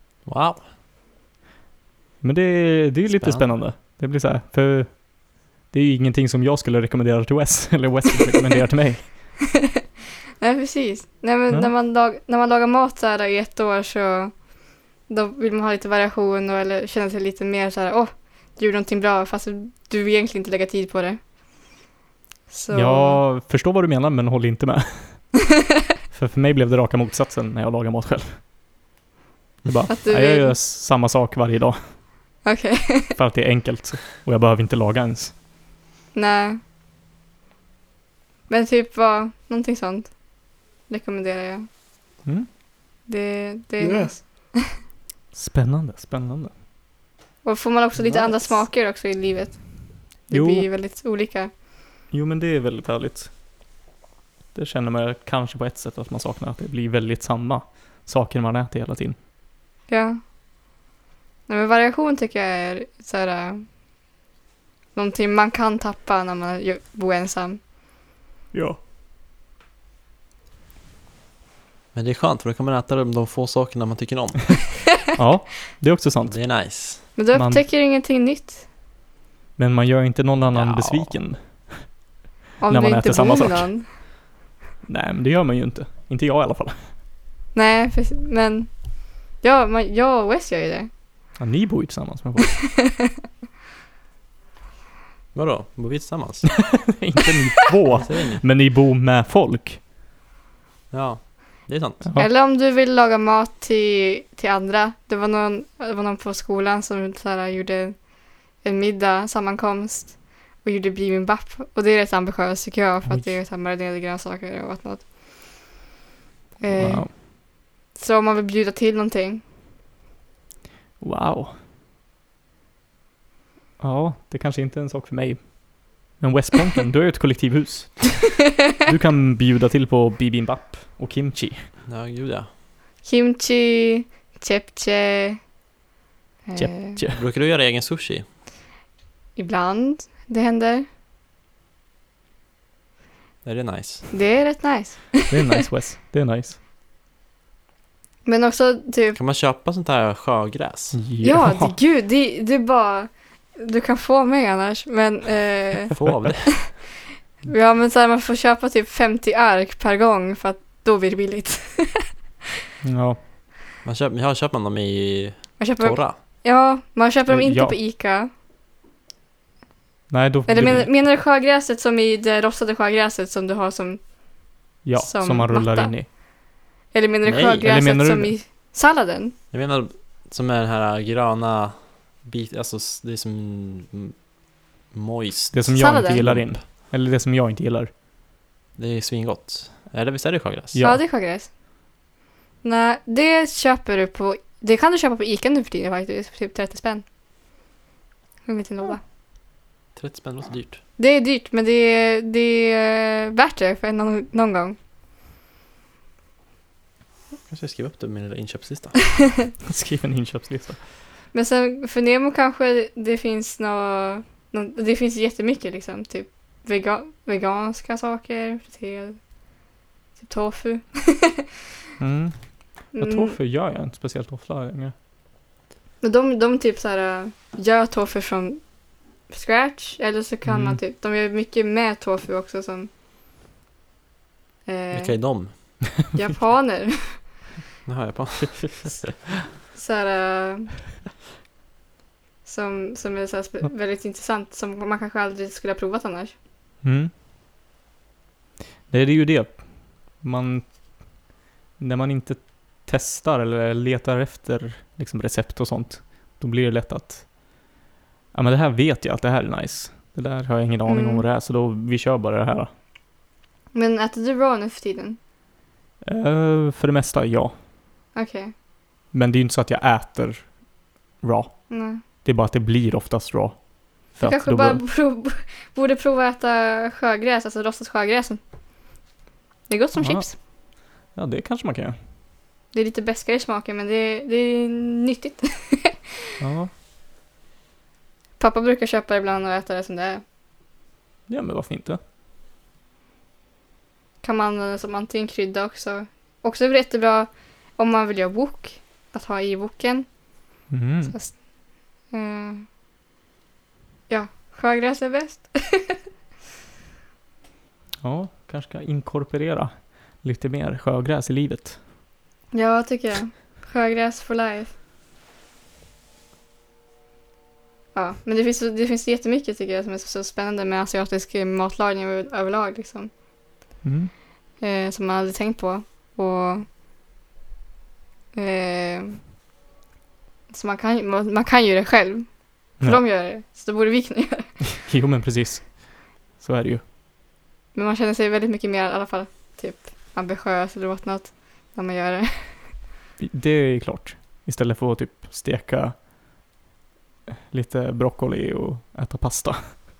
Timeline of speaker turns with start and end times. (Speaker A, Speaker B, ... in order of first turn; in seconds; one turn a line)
Speaker A: 0.2-0.7
Speaker B: 2.2-5.1
Speaker A: 3.1-3.5
Speaker B: 5.6-9.3
Speaker C: 10.4-14.5
Speaker C: 15.1-21.2
Speaker C: 22.5-23.2
Speaker B: 22.7-25.3
Speaker B: 26.1-28.4
Speaker B: 29.6-31.8
Speaker C: 29.9-30.5
Speaker C: 32.4-33.2
Speaker B: 33.1-35.4
Speaker C: 36.1-36.6
Speaker C: 38.5-40.2
Speaker C: 40.9-41.7
Speaker C: 43.1-44.8
Speaker B: 45.3-46.5
Speaker C: 47.4-51.5
Speaker A: 48.0-48.3
Speaker B: 50.3-50.7
Speaker B: 52.1-53.3
Speaker B: 54.5-59.1
Speaker C: 59.9-60.2
Speaker C: 61.5-63.6
Speaker C: 64.9-67.6
Speaker B: 68.5-68.8
Speaker A: 71.9-74.5
Speaker B: 75.1-76.4
Speaker A: 76.2-77.0
Speaker C: 77.2-78.7
Speaker B: 77.3-77.6
Speaker B: 79.6-81.9
Speaker A: 80.5-81.2
Speaker C: 82.6-83.9
Speaker B: 82.7-83.7
Speaker B: 84.8-86.9
Speaker C: 87.5-90.9
Speaker B: 91.4-92.6
Speaker C: 92.5-93.1
Speaker A: 95.3-96.8
Speaker B: 96.7-99.8
Speaker A: 98.0-98.4
Speaker A: 100.9-102.0
Speaker B: 102.0-102.3
Speaker C: 102.2-115.7
Speaker B: 113.0-113.3
Speaker C: 116.6-119.4
Speaker B: 116.7-117.1
Speaker B: 121.0-121.5
Speaker B: 123.8-131.7
Speaker A: 131.9-132.5
Speaker C: 133.0-135.4
Speaker C: 136.4-137.0
Speaker B: 136.6-137.2
Speaker A: 137.1-138.2
Speaker C: 139.3-140.8
Speaker A: 143.4-144.1
Speaker C: 144.1-145.6
Speaker B: 145.3-146.6
Speaker C: 148.2-149.2
Speaker A: 149.1-151.0
Speaker B: 150.9-151.8
Speaker C: 151.2-156.8
Speaker A: 155.9-156.6
Speaker B: 156.0-156.2
Speaker C: 157.4-162.1
Speaker B: 162.8-163.2
Speaker A: 163.8-166.2
Speaker C: 165.6-168.3
Speaker B: 167.3-167.8
Speaker B: 170.1-170.9
Speaker C: 170.5-174.1
Speaker B: 174.8-176.1
Speaker C: 175.0-176.1
Speaker C: 176.9-179.3
Speaker A: 177.2-177.7
Speaker B: 177.6-178.3
Speaker A: 179.5-184.2
Speaker A: 184.9-186.6
Speaker B: 185.5-187.9
Speaker C: 185.8-186.2
Speaker A: 188.8-190.8
Speaker B: 190.7-191.0
Speaker C: 190.8-191.5
Speaker C: 192.6-197.0
Speaker C: 198.4-199.0
Speaker A: 199.9-200.8
Speaker C: 201.0-204.8
Speaker A: 207.5-209.0
Speaker B: 209.6-210.8
Speaker C: 211.3-219.2
Speaker C: 220.2-221.4
Speaker B: 222.0-224.9
Speaker C: 222.9-223.3
Speaker C: 226.0-228.6
Speaker C: 229.3-232.9
Speaker B: 230.4-230.8
Speaker C: 234.7-237.3
Speaker A: 234.9-235.5
Speaker A: 237.8-239.0
Speaker C: 239.7-240.7
Speaker C: 242.4-246.3
Speaker B: 246.8-247.1
Speaker B: 248.9-250.7
Speaker B: 251.8-257.3
Speaker B: 258.3-262.7
Speaker C: 260.9-261.2
Speaker C: 263.7-265.2
Speaker B: 266.0-267.5
Speaker C: 268.1-268.5
Speaker B: 269.1-270.6
Speaker B: 271.2-274.8
Speaker C: 271.7-272.0
Speaker C: 274.2-278.4
Speaker C: 279.7-280.4
Speaker B: 280.0-280.5
Speaker B: 281.1-282.0
Speaker C: 282.7-286.0
Speaker B: 286.4-286.7
Speaker C: 288.4-290.2
Speaker B: 291.3-292.0
Speaker C: 294.2-300.1
Speaker B: 300.7-301.1
Speaker C: 301.1-301.4
Speaker C: 302.1-302.7
Speaker C: 304.1-306.0
Speaker B: 308.0-311.8
Speaker C: 312.5-314.7
Speaker C: 317.9-323.1
Speaker B: 323.8-324.1
Speaker C: 324.6-326.7
Speaker C: 328.3-329.2
Speaker C: 330.5-334.5
Speaker B: 334.7-336.8
Speaker C: 337.7-342.7
Speaker B: 343.2-346.0
Speaker B: 347.3-349.8